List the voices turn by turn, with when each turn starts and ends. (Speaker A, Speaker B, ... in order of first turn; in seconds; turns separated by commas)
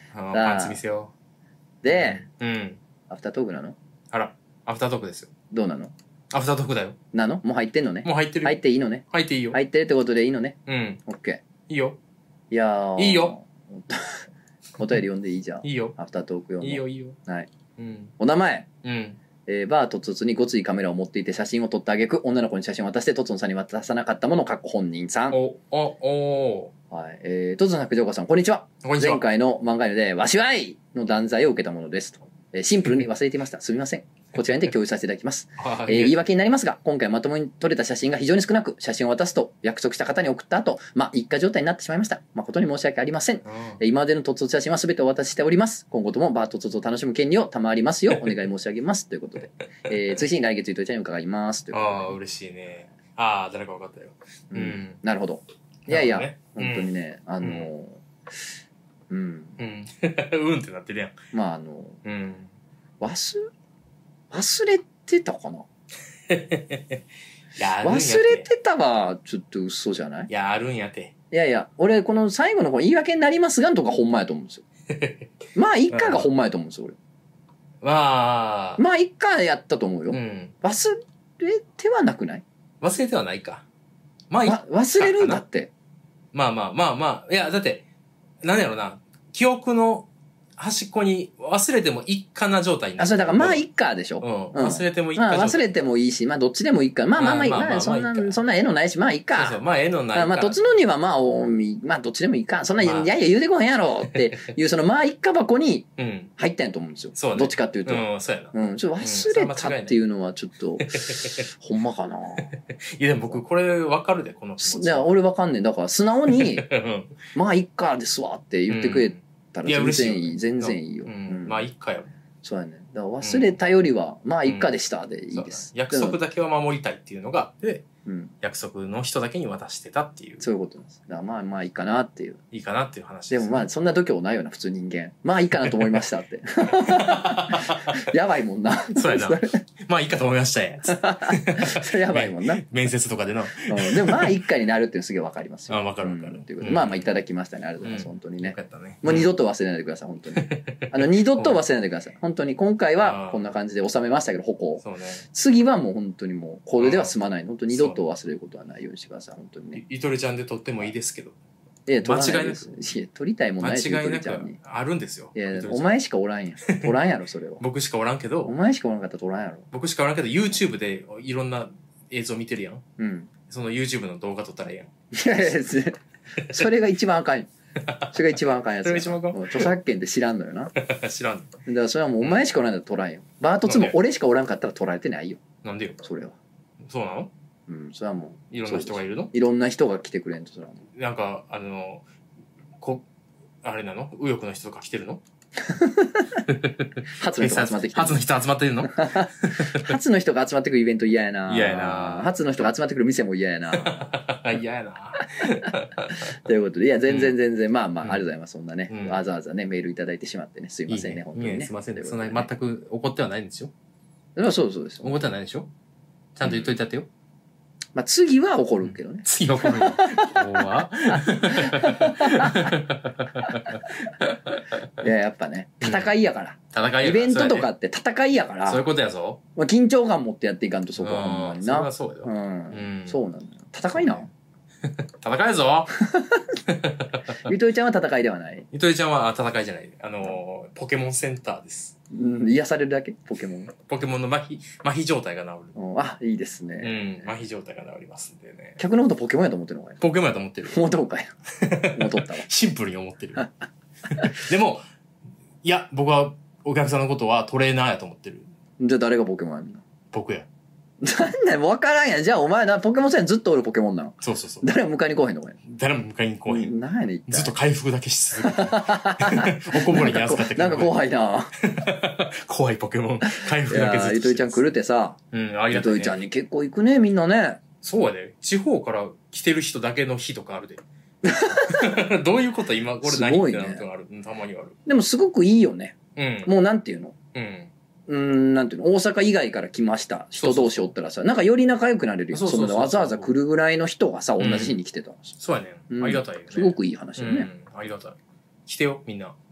Speaker A: 0.1-1.1, Speaker B: 0.3-0.8, Speaker B: 1.8-2.2, Speaker A: 1.9-2.8, Speaker B: 3.1-3.8, Speaker A: 4.1-5.3, Speaker B: 5.5-5.9, Speaker A: 6.3-7.0, Speaker B: 7.1-11.4, Speaker A: 8.0-8.6, Speaker A: 9.1-9.6, Speaker A: 10.7-11.0, Speaker A: 11.7-12.0, Speaker B: 12.5-14.2, Speaker A: 13.0-13.3, Speaker B: 14.8-17.5, Speaker A: 15.6-16.0, Speaker A: 16.6-17.2, Speaker A: 17.8-18.1, Speaker B: 18.2-18.7, Speaker A: 18.8-19.2, Speaker B: 19.5-25.4, Speaker A: 25.3-26.7, Speaker B: 26.9-52.2, Speaker A: 28.8-29.2, Speaker A: 35.6-36.2, Speaker A: 43.5-43.8, Speaker A: 51.7-55.0, Speaker B: 54.5-58.0, Speaker A: 55.9-56.9, Speaker A: 57.4-57.7, Speaker B: 59.1-59.6, Speaker A: 59.6-61.2, Speaker B: 61.3-62.0, Speaker A: 62.0-62.5, Speaker B: 63.0-63.4, Speaker B: 64.3-65.7, Speaker A: 66.3-67.0, Speaker A: 67.6-68.5, Speaker B: 67.8-70.3, Speaker A: 70.3-71.1, Speaker B: 71.3-74.6, Speaker A: 74.9-75.3, Speaker B: 75.5-77.0, Speaker A: 75.9-76.3, Speaker A: 77.8-78.8, Speaker B: 78.8-82.4, Speaker A: 80.1-80.5, Speaker A: 82.8-83.6, Speaker A: 84.3-85.4, Speaker B: 84.4-85.7, Speaker A: 86.3-87.8, Speaker A: 88.4-93.6, Speaker B: 93.0-99.6, Speaker A: 94.2-95.7, Speaker A: 97.2-98.4, Speaker A: 99.3-100.6, Speaker B: 100.1-112.5, Speaker A: 102.8-103.1, Speaker A: 106.0-106.3, Speaker A: 107.1-110.0, Speaker A: 110.9-111.4, Speaker A: 112.4-115.1, Speaker B: 114.6-116.7, Speaker A: 116.3-117.2, Speaker B: 117.3-121.6, Speaker A: 118.7-122.1, Speaker B: 122.4-126.2, Speaker A: 123.2-123.6, Speaker A: 124.5-124.7, Speaker A: 125.3-127.8, Speaker B: 128.1-128.3, Speaker A: 128.4-130.4, Speaker B: 130.4-132.4, Speaker A: 132.5-133.7, Speaker B: 133.3-139.6, Speaker A: 136.8-138.0, Speaker A: 138.9-144.3, Speaker B: 140.9-142.7, Speaker B: 143.7-159.8, Speaker A: 145.7-147.1, Speaker A: 147.8-149.3, Speaker A: 150.4-151.6, Speaker A: 153.0-153.5, Speaker A: 154.8-155.2, Speaker A: 156.8-157.2, Speaker A: 157.7-158.0, Speaker A: 159.8-161.4, Speaker B: 161.9-164.6, Speaker A: 162.0-162.7, Speaker A: 163.6-166.0, Speaker B: 165.3-167.6, Speaker A: 166.7-166.9, Speaker A: 167.6-168.6, Speaker B: 168.4-169.7, Speaker A: 169.7-172.8, Speaker B: 173.0-173.3, Speaker A: 173.5-174.9, Speaker B: 175.1-176.0, Speaker B: 176.5-177.5, Speaker A: 177.8-179.7, Speaker B: 178.1-180.7, Speaker A: 180.8-181.5, Speaker B: 181.7-185.4, Speaker A: 182.2-182.5, Speaker A: 183.7-184.0, Speaker A: 185.6-186.0, Speaker B: 186.0-186.3, Speaker A: 186.8-187.3, Speaker B: 187.7-190.8, Speaker A: 188.5-189.3, Speaker A: 190.9-192.1, Speaker A: 192.8-193.1, Speaker A: 193.6-195.2, Speaker B: 195.6-196.4, Speaker A: 196.5-199.9, Speaker B: 197.2-198.2, Speaker B: 198.9-204.1, Speaker A: 201.5-202.4, Speaker A: 203.7-206.3, Speaker B: 206.4-212.5, Speaker A: 208.9-209.2, Speaker A: 210.9-213.7, Speaker B: 214.4-215.2, Speaker A: 215.0-215.7, Speaker A: 216.4-217.1, Speaker B: 216.5-216.8, Speaker B: 217.9-222.7, Speaker A: 218.8-224.8, Speaker B: 225.0-228.8, Speaker A: 225.8-226.1, Speaker A: 226.7-227.7, Speaker A: 228.7-229.4, Speaker B: 229.6-234.3, Speaker A: 231.0-233.2, Speaker A: 233.9-234.3, Speaker A: 234.9-235.9, Speaker B: 236.0-236.4, Speaker A: 236.7-237.4, Speaker B: 237.4-238.7, Speaker A: 238.7-242.0, Speaker B: 242.1-243.7, Speaker A: 243.8-245.8, Speaker B: 245.8-247.3, Speaker A: 246.8-248.8, Speaker B: 248.8-250.0, Speaker A: 250.0-250.8, Speaker B: 250.7-251.3, Speaker A: 251.6-253.5, Speaker B: 251.9-252.5, Speaker A: 254.1-254.8, Speaker A: 255.6-258.5, Speaker B: 258.8-259.8, Speaker A: 260.1-260.5, Speaker B: 261.0-265.6, Speaker A: 264.2-264.7, Speaker A: 265.7-266.7, Speaker B: 266.4-267.6, Speaker A: 267.3-271.0, Speaker B: 268.4-271.5, Speaker A: 271.7-274.7, Speaker B: 273.4-275.2, Speaker A: 275.3-276.2, Speaker B: 275.7-277.6, Speaker A: 277.8-280.8, Speaker B: 281.2-282.0, Speaker A: 281.7-284.8, Speaker B: 283.0-283.9, Speaker B: 284.9-287.1, Speaker A: 286.1-286.5, Speaker A: 287.3-287.7, Speaker B: 288.1-295.3, Speaker A: 290.3-290.9, Speaker A: 292.3-293.3, Speaker A: 294.4-294.8, Speaker A: 295.4-299.4, Speaker B: 295.9-297.5